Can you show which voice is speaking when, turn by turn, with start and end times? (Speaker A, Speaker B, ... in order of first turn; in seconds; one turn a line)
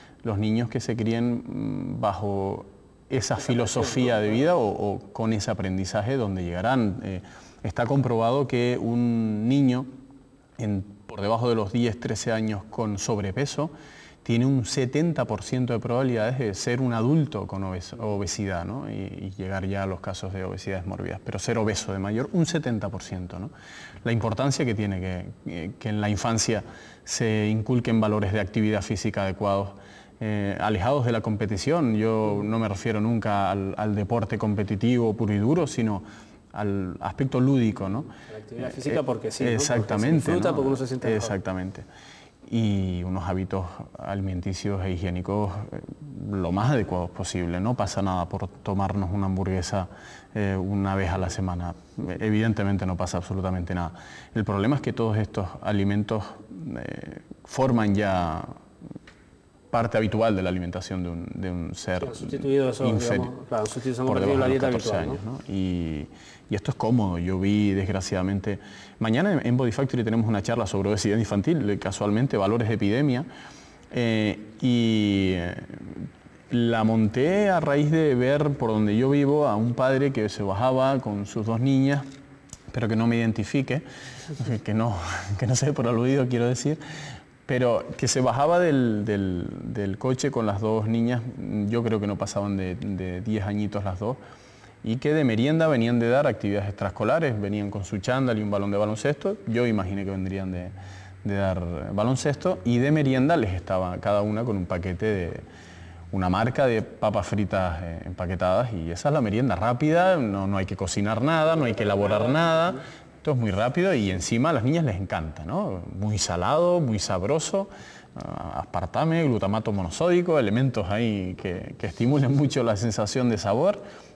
Speaker A: 0.2-9.9
Speaker A: 10.6-13.7
Speaker A: 14.2-23.5
Speaker A: 24.0-38.1
Speaker B: 38.3-41.3
Speaker A: 38.6-41.8
Speaker A: 42.5-58.5
Speaker A: 59.7-63.3
Speaker B: 62.0-65.2
Speaker A: 64.0-73.3
Speaker A: 73.9-82.1
Speaker A: 82.7-86.8
Speaker A: 87.5-94.2
Speaker A: 94.8-105.4
Speaker A: 106.1-123.8
Speaker B: 112.2-112.5